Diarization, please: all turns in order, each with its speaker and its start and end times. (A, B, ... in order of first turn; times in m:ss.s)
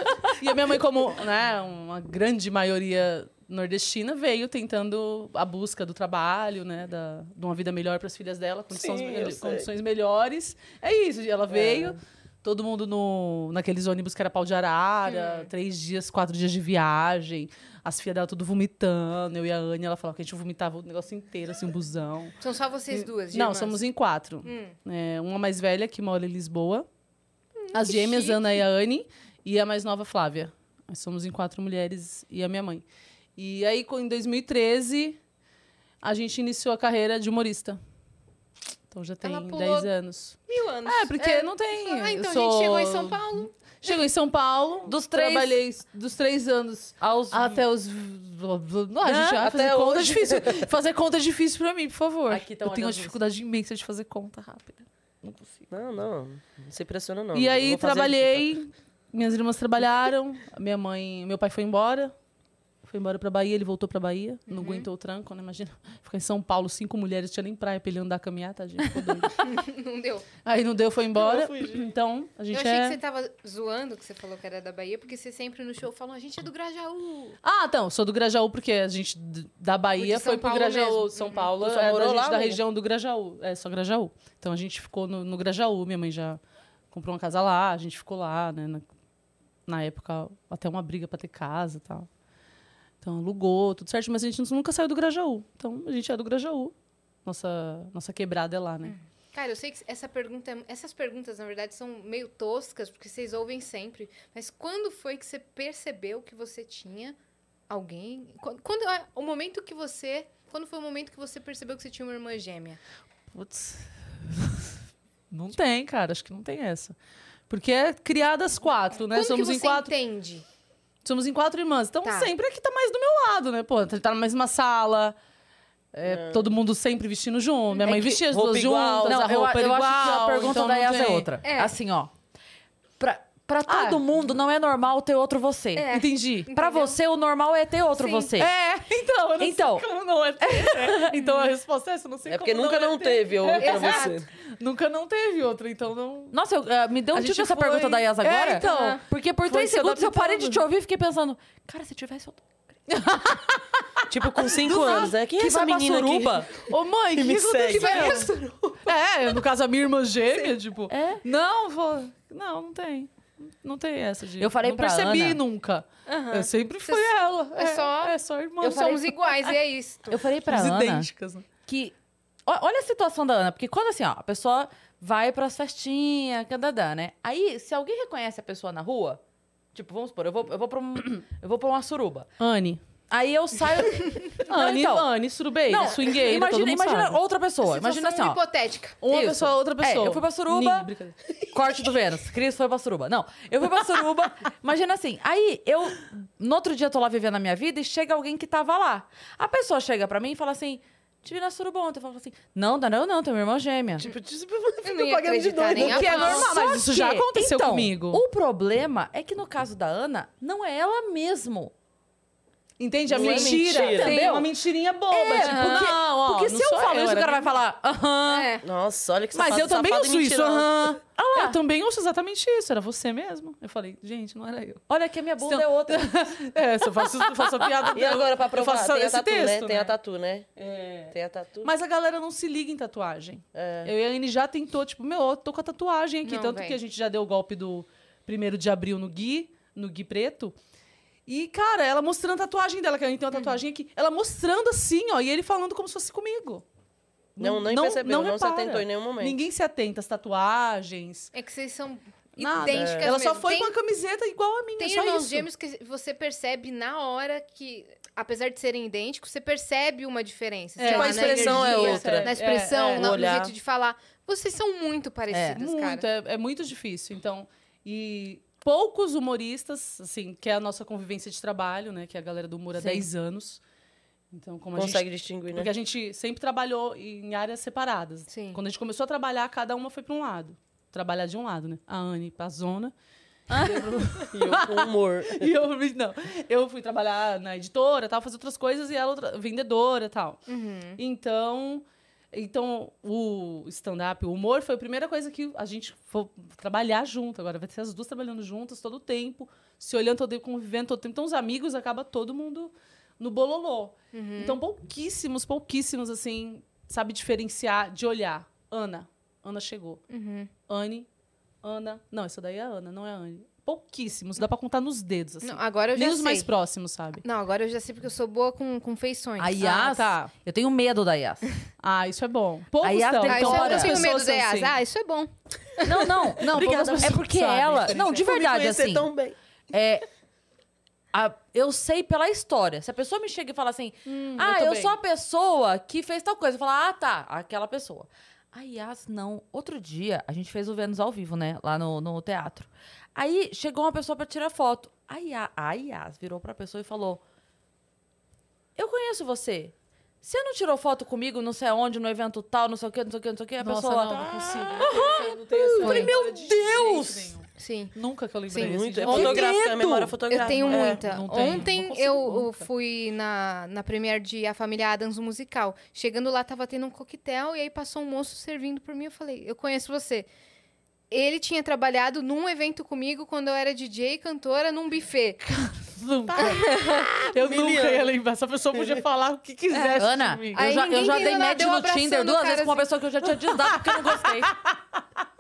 0:00.3-0:22.4 A
0:08.7-0:09.7 B
0:11.5-0:12.0 B
0:15.1-0:15.5 C
0:22.4-0:23.8 C
0:22.9-0:26.9 A
0:24.4-0:24.7 C
0:27.6-0:28.4 C
0:27.7-0:32.8 A
0:33.4-0:35.2 A
0:36.0-0:37.8 A
0:38.9-0:55.4 A
0:39.2-0:39.9 C
0:40.5-0:43.5 C
0:44.9-0:45.6 D
0:47.0-0:47.6 D
0:49.1-0:50.7 B
0:52.3-0:53.2 D
0:55.7-0:58.5 B
0:57.3-1:02.1 A
1:02.8-1:09.4 A
1:04.5-1:04.9 C
1:09.4-1:10.3 C
1:10.4-1:13.0 A
1:11.2-1:11.9 B
1:12.5-1:17.4 C
1:17.4-1:26.4 A
1:20.0-1:21.5 C
1:21.6-1:22.6 B
1:26.9-1:28.8 A
1:29.7-1:32.1 A
1:33.0-1:36.7 A
1:37.2-1:39.0 A
1:38.8-1:47.2 C
1:47.7-1:52.8 C
1:53.3-1:54.7 A
1:55.3-1:57.0 A
1:57.5-1:59.9 A
1:59.1-2:00.4 C
2:01.0-2:05.2 A
2:02.0-2:02.3 C
2:05.9-2:11.3 A
2:06.0-2:06.5 B
2:07.9-2:09.2 B
2:09.1-2:12.1 D
2:11.4-2:11.8 C
2:13.0-2:15.9 D
2:13.7-2:14.1 A
2:15.8-2:17.0 C
2:15.9-2:16.5 A
2:16.5-2:18.5 D
2:18.0-2:18.3 C
2:18.4-2:26.4 A
2:19.4-2:19.8 D
2:20.4-2:21.1 D
2:21.2-2:21.5 C
2:22.3-2:24.3 B
2:23.6-2:24.2 C
2:26.3-2:32.4 D
2:27.1-2:30.6 A
2:28.4-2:29.0 C
2:32.9-2:35.1 A
2:34.1-2:38.9 B
2:34.6-2:36.5 D
2:36.6-2:49.6 A
2:37.7-2:38.4 C
2:40.9-2:41.2 D
2:44.4-2:45.4 D
2:46.1-2:50.2 C
2:48.6-2:49.0 D
2:50.1-2:51.1 D
2:50.5-2:51.5 A
2:51.7-2:51.9 D
2:52.5-2:59.2 D
2:59.7-3:02.3 D
3:02.4-3:02.8 A
3:03.1-3:05.1 D
3:04.4-3:07.2 A
3:05.7-3:08.4 D
3:07.6-3:09.0 C
3:09.0-3:11.2 A
3:09.1-3:10.9 D
3:11.5-3:24.1 D
3:24.0-3:26.5 B
3:24.8-3:26.5 C
3:25.7-3:28.2 A
3:25.8-3:31.7 D
3:32.8-3:37.6 A
3:33.1-3:34.2 B
3:33.2-3:34.5 D
3:34.0-3:34.3 C
3:35.1-3:38.5 D
3:35.4-3:35.9 C
3:38.3-3:38.7 C
3:38.6-3:40.9 B
3:39.3-3:44.8 A
3:41.2-3:41.6 D
3:44.9-3:46.1 D
3:45.4-3:50.0 A
3:47.9-3:50.5 B
3:50.6-4:00.6 A
3:51.1-3:51.7 B
3:53.5-3:53.9 B
3:56.2-3:56.8 C
4:01.3-4:06.6 A
4:03.3-4:03.6 C
4:07.4-4:11.3 A
4:07.4-4:09.4 B
4:11.3-4:13.8 C
4:12.4-4:15.5 A
4:12.7-4:13.2 B
4:14.8-4:26.0 C
4:20.8-4:23.2 A
4:20.8-4:22.4 B
4:22.9-4:23.5 B
4:25.3-4:25.6 D
4:25.5-4:33.6 A
4:32.8-4:33.0 D
4:34.3-4:42.9 A
4:34.8-4:35.7 B
4:38.3-4:38.6 C
4:43.5-4:43.8 D
4:43.5-4:50.4 A
4:44.3-4:45.5 B
4:50.5-4:51.0 C
4:51.0-5:10.0 A
5:04.1-5:04.6 C
5:10.1-5:10.5 C
5:10.7-5:11.1 A
5:11.6-5:17.2 A
5:15.4-5:16.5 C
5:17.2-5:19.9 C
5:19.4-5:21.5 D
5:19.6-5:20.3 A
5:21.8-5:24.8 A
5:22.8-5:24.1 D
5:23.3-5:25.3 C
5:25.8-5:29.1 D
5:26.4-5:28.2 A
5:26.5-5:27.2 B
5:27.9-5:29.4 B
5:29.7-5:30.1 D
5:31.1-5:47.2 D
5:34.1-5:35.0 A
5:48.8-5:57.3 D
5:53.6-5:59.8 A
5:54.3-5:54.7 B
5:55.8-5:56.1 C
5:57.6-5:57.9 C
5:58.5-5:59.4 C
5:58.6-6:01.0 B
5:59.1-6:00.2 D
6:00.3-6:10.3 C
6:00.3-6:02.7 A
6:11.1-6:15.4 C
6:15.5-6:21.3 A
6:16.4-6:17.1 C
6:17.3-6:18.1 B
6:18.7-6:19.0 B
6:19.7-6:20.0 C
6:20.0-6:24.5 D
6:20.5-6:22.9 C
6:23.7-6:25.0 A